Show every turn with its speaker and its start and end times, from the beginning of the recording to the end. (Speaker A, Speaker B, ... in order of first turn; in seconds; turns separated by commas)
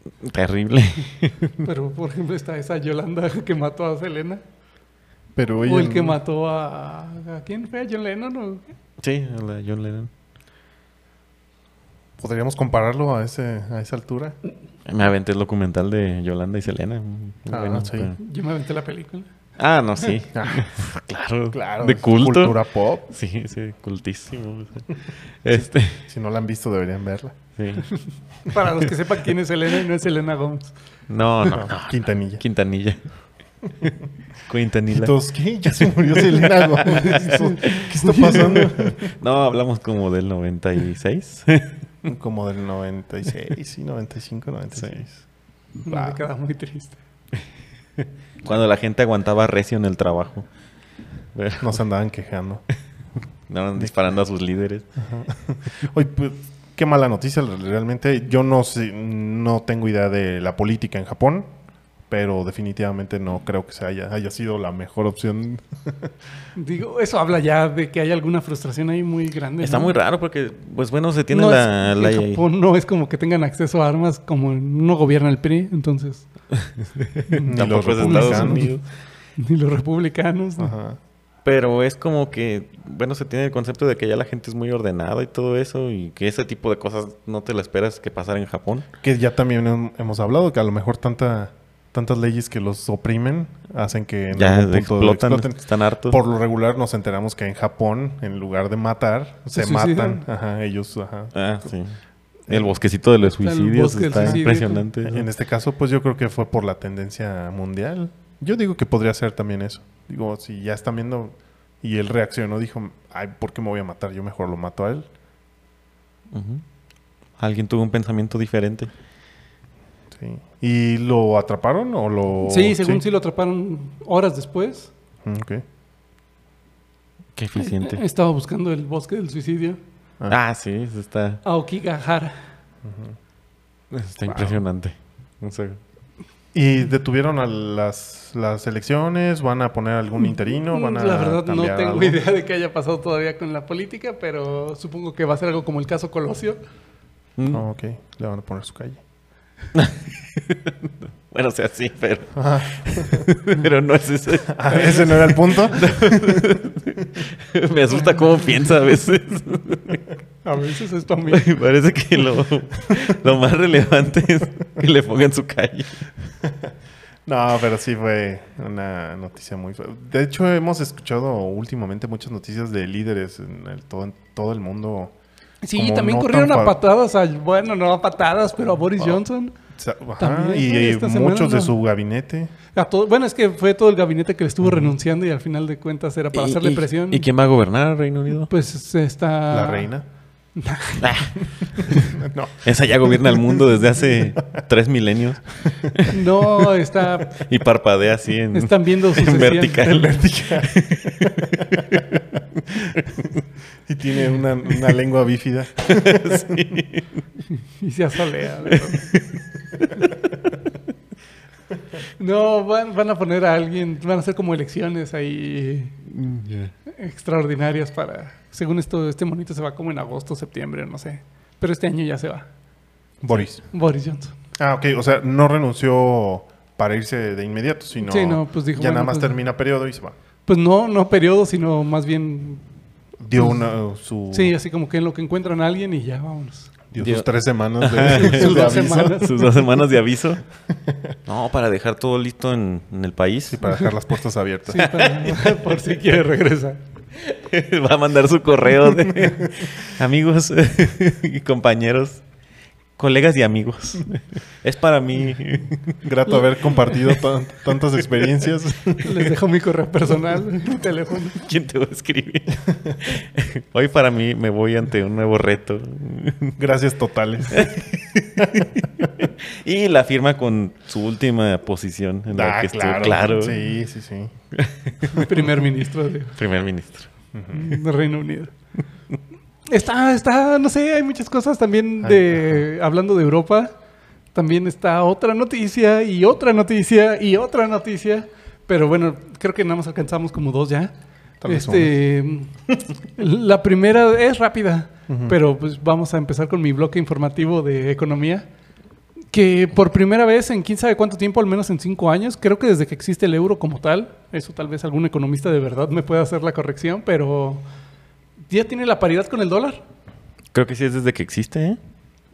Speaker A: 0.2-1.6, Speaker B: 1.6-4.4, Speaker C: 5.4-6.2, Speaker B: 5.7-8.6, Speaker A: 9.0-10.1, Speaker C: 12.2-14.3, Speaker A: 14.9-18.2, Speaker C: 17.5-18.1, Speaker B: 18.2-19.3, Speaker A: 19.6-26.0, Speaker C: 20.3-20.7, Speaker C: 21.5-23.1, Speaker C: 25.5-27.4, Speaker A: 27.6-27.9, Speaker B: 28.5-30.7, Speaker A: 31.1-33.0, Speaker C: 31.5-32.4, Speaker A: 34.5-35.1, Speaker C: 34.9-39.1, Speaker A: 36.1-41.7, Speaker B: 36.9-38.7, Speaker C: 42.1-45.2, Speaker B: 45.9-47.0, Speaker C: 45.9-46.2, Speaker A: 48.0-50.5, Speaker A: 51.4-51.8, Speaker C: 51.6-52.6, Speaker A: 53.5-54.9, Speaker C: 55.0-61.5, Speaker C: 62.1-66.1, Speaker B: 66.6-70.0, Speaker A: 69.6-72.4, Speaker B: 71.3-76.3, Speaker A: 76.5-78.8, Speaker B: 77.3-78.7, Speaker C: 77.5-78.7, Speaker B: 79.4-80.8, Speaker C: 80.6-81.0, Speaker A: 81.5-88.9, Speaker C: 89.0-101.7, Speaker A: 94.3-96.2, Speaker B: 99.5-100.2, Speaker A: 101.3-102.0, Speaker C: 102.5-102.7, Speaker A: 102.5-105.3, Speaker B: 103.2-104.8, Speaker C: 105.0-115.1, Speaker A: 116.3-116.6, Speaker A: 117.4-118.9, Speaker C: 120.1-123.0, Speaker B: 122.5-124.9, Speaker C: 125.2-125.6, Speaker A: 127.4-128.0, Speaker B: 127.6-129.8, Speaker A: 130.3-131.4, Speaker B: 131.4-132.3, Speaker C: 132.8-133.2, Speaker A: 133.9-135.8, Speaker C: 136.5-142.2, Speaker B: 140.3-146.6, Speaker A: 147.4-147.6, Speaker C: 147.5-149.0, Speaker A: 149.7-160.0, Speaker C: 152.4-153.3, Speaker C: 154.5-156.6, Speaker B: 154.7-155.5, Speaker B: 160.4-161.6, Speaker A: 161.3-166.0, Speaker C: 166.4-166.7, Speaker C: 167.3-175.1, Speaker B: 175.6-179.6, Speaker C: 175.8-176.8, Speaker C: 179.8-182.5, Speaker B: 180.2-181.8, Speaker B: 182.8-187.3, Speaker A: 186.3-188.5, Speaker B: 188.5-189.9, Speaker C: 189.5-190.1, Speaker B: 190.6-191.1, Speaker A: 191.0-191.3, Speaker C: 191.9-193.3, Speaker A: 192.6-196.6, Speaker C: 195.8-196.1, Speaker B: 196.1-197.4, Speaker A: 197.3-202.0, Speaker B: 198.5-200.4, Speaker C: 201.2-203.3, Speaker A: 202.8-203.2, Speaker C: 203.9-206.8, Speaker A: 205.8-207.1, Speaker B: 207.8-209.1, Speaker A: 208.7-209.4, Speaker A: 210.0-210.7, Speaker B: 212.2-216.0, Speaker A: 216.1-216.7, Speaker B: 216.9-222.5, Speaker C: 223.2-223.6, Speaker B: 223.6-224.3, Speaker C: 224.6-230.2, Speaker B: 228.0-229.3, Speaker B: 230.5-232.6, Speaker C: 233.2-234.5, Speaker B: 234.3-236.7, Speaker C: 236.9-239.2, Speaker A: 237.0-237.3, Speaker A: 237.8-240.4, Speaker B: 238.1-239.7, Speaker C: 240.7-241.2, Speaker A: 241.3-243.6, Speaker C: 243.5-245.1, Speaker B: 244.7-246.8, Speaker A: 244.8-246.0, Speaker A: 247.2-252.2, Speaker C: 249.0-249.5, Speaker A: 253.0-256.0, Speaker C: 255.9-259.3, Speaker B: 259.0-261.4, Speaker A: 261.3-266.6, Speaker C: 266.6-267.9, Speaker A: 267.5-273.6, Speaker C: 268.4-269.1, Speaker C: 272.3-274.3, Speaker A: 274.5-275.5, Speaker B: 275.1-276.4, Speaker A: 276.4-277.1, Speaker C: 277.3-277.8, Speaker B: 277.5-278.5, Speaker B: 279.7-283.7, Speaker C: 282.0-282.6, Speaker B: 284.4-290.9, Speaker C: 291.4-291.9, Speaker B: 291.5-292.5, Speaker B: 293.2-298.5, Speaker C: 295.1-295.4, Speaker B: 299.3-307.6, Speaker B: 308.5-309.8, Speaker A: 310.5-311.8